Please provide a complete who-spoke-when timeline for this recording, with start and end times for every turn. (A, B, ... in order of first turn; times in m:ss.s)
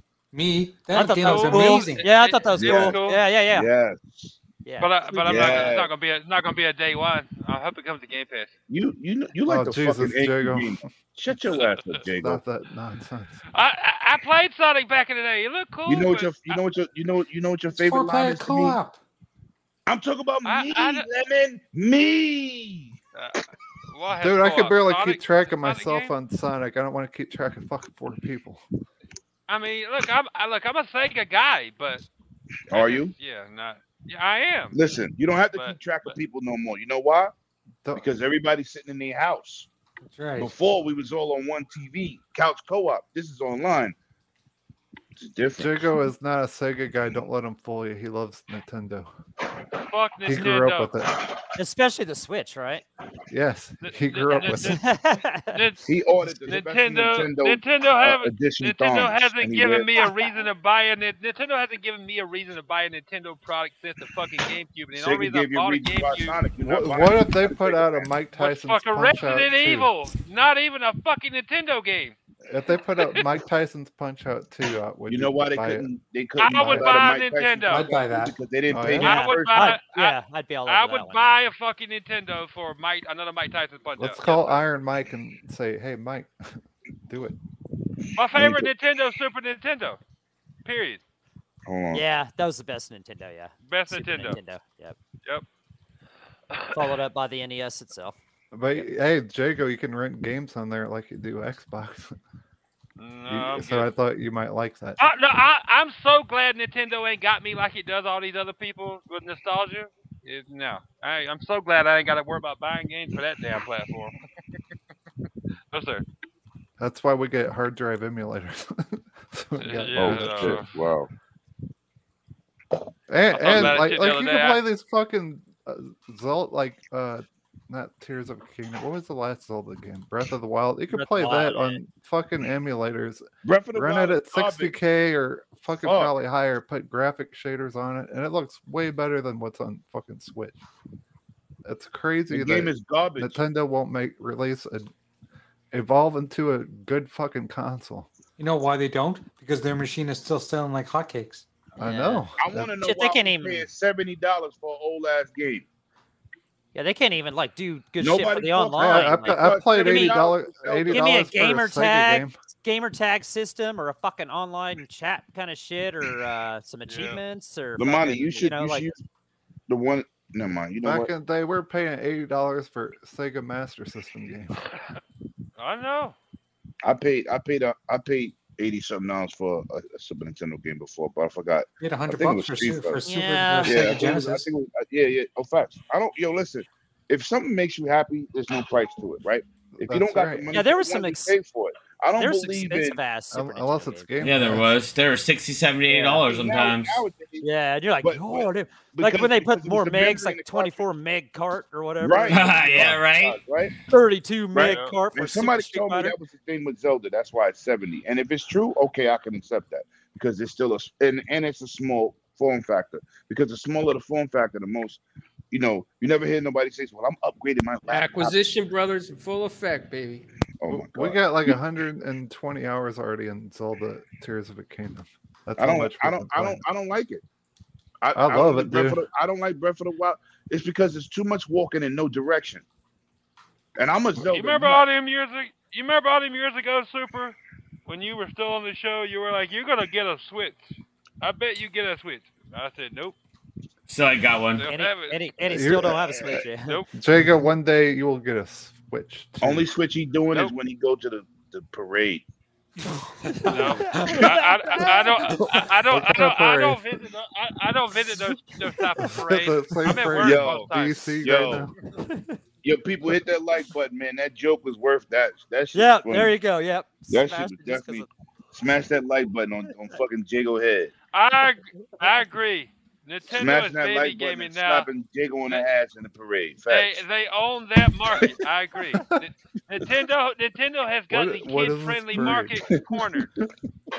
0:00.3-0:02.1 A
0:00.9-0:03.7 B
0:01.2-0:03.2 C
0:02.6-0:03.0 D
0:03.5-0:04.4 D
0:04.6-0:05.8 B
0:04.8-0:08.5 C
0:05.2-0:05.9 D
0:08.7-0:12.4 D
0:09.4-0:10.9 E
0:11.5-0:11.8 C
0:12.2-0:13.4 E
0:13.5-0:16.6 C
0:15.9-0:18.8 D
0:17.7-0:19.0 A
0:19.9-0:23.0 D
0:20.4-0:21.0 C
0:23.1-0:26.1 C
0:24.2-0:28.6 E
0:29.5-0:32.0 C
0:32.7-0:33.1 D
0:32.7-0:34.8 C
0:34.7-0:37.3 D
0:35.5-0:36.2 C
0:37.8-0:38.1 E
0:38.0-0:39.7 D
0:40.0-0:40.5 A
0:40.4-0:43.9 D
0:45.2-0:45.9 D
0:45.6-0:49.1 E
0:49.9-0:51.0 C
0:50.2-0:51.2 E
0:51.6-0:52.8 B
0:53.3-0:54.8 E
0:53.8-0:54.8 C
0:54.6-0:55.6 B
0:55.5-0:55.8 C
0:55.8-1:00.1 D
0:56.5-1:06.4 C
1:04.9-1:08.2 D
1:06.6-1:09.9 E
1:08.3-1:12.2 C
1:12.5-1:15.9 E
1:15.1-1:19.8 D
1:16.4-1:17.8 C
1:16.5-1:17.0 E
1:17.7-1:18.3 A
1:18.7-1:19.1 E
1:19.0-1:21.4 B
1:19.0-1:24.6 C
1:24.0-1:27.4 E
1:28.2-1:30.0 C
1:28.2-1:28.7 D
1:30.6-1:31.0 C
1:31.7-1:32.0 D
1:31.9-1:35.0 B
1:33.6-1:34.4 C
1:36.5-1:36.8 C
1:36.7-1:38.2 B
1:38.5-1:42.2 E
1:43.0-1:43.9 C
1:43.3-1:45.0 E
1:45.0-1:54.1 C
1:55.7-1:56.0 C
1:56.8-2:00.6 E
1:59.6-2:00.7 C
1:59.9-2:01.1 D
2:03.1-2:20.6 E
2:03.3-2:04.6 C
2:03.5-2:03.8 D
2:10.9-2:11.8 B
2:13.4-2:14.7 D
2:15.8-2:16.1 D
2:21.6-2:24.9 E
2:22.3-2:23.4 D
2:25.7-2:28.1 E
2:28.4-2:31.4 A
2:31.8-2:32.7 E
2:31.8-2:33.7 B
2:32.4-2:35.6 D
2:36.7-2:40.2 B
2:38.0-2:41.2 D
2:38.8-2:42.3 E
2:40.8-2:48.9 B
2:46.9-2:47.2 C
2:47.8-2:49.0 D
2:49.7-2:51.1 D
2:50.8-2:54.6 E
2:55.6-2:56.2 C
2:56.8-3:03.0 D
3:01.8-3:04.5 A
3:03.0-3:04.0 B
3:03.6-3:13.0 D
3:09.8-3:10.5 E
3:10.5-3:11.4 B
3:12.2-3:14.1 B
3:13.3-3:14.7 E
3:14.2-3:17.0 F
3:15.9-3:16.2 B
3:16.0-3:17.4 D
3:17.4-3:23.0 B
3:18.0-3:20.8 D
3:22.0-3:23.7 D
3:22.3-3:23.4 F
3:23.9-3:26.2 B
3:24.5-3:38.4 D
3:24.6-3:25.0 C
3:37.9-3:40.2 G
3:40.6-3:41.6 D
3:40.7-3:46.6 E
3:45.6-3:47.2 D
3:48.0-3:52.6 D
3:48.1-3:49.0 E
3:53.8-3:54.8 D
3:54.2-4:00.6 C
4:01.2-4:03.2 C
4:03.9-4:04.6 F
4:04.6-4:05.2 C
4:04.7-4:06.8 B
4:05.5-4:06.0 E
4:05.8-4:06.5 D
4:06.6-4:06.9 C
4:06.9-4:09.7 E
4:09.4-4:12.2 D
4:13.2-4:15.6 B
4:13.5-4:21.2 C
4:15.3-4:16.8 E
4:19.0-4:21.7 E
4:20.2-4:20.7 D
4:21.2-4:21.7 D
4:22.0-4:22.4 B
4:22.6-4:26.4 D
4:25.7-4:28.1 B
4:27.1-4:30.9 D
4:31.1-4:34.9 C
4:33.4-4:37.0 D
4:36.7-4:43.3 C
4:38.1-4:38.4 D
4:41.1-4:42.6 E
4:42.7-4:43.5 D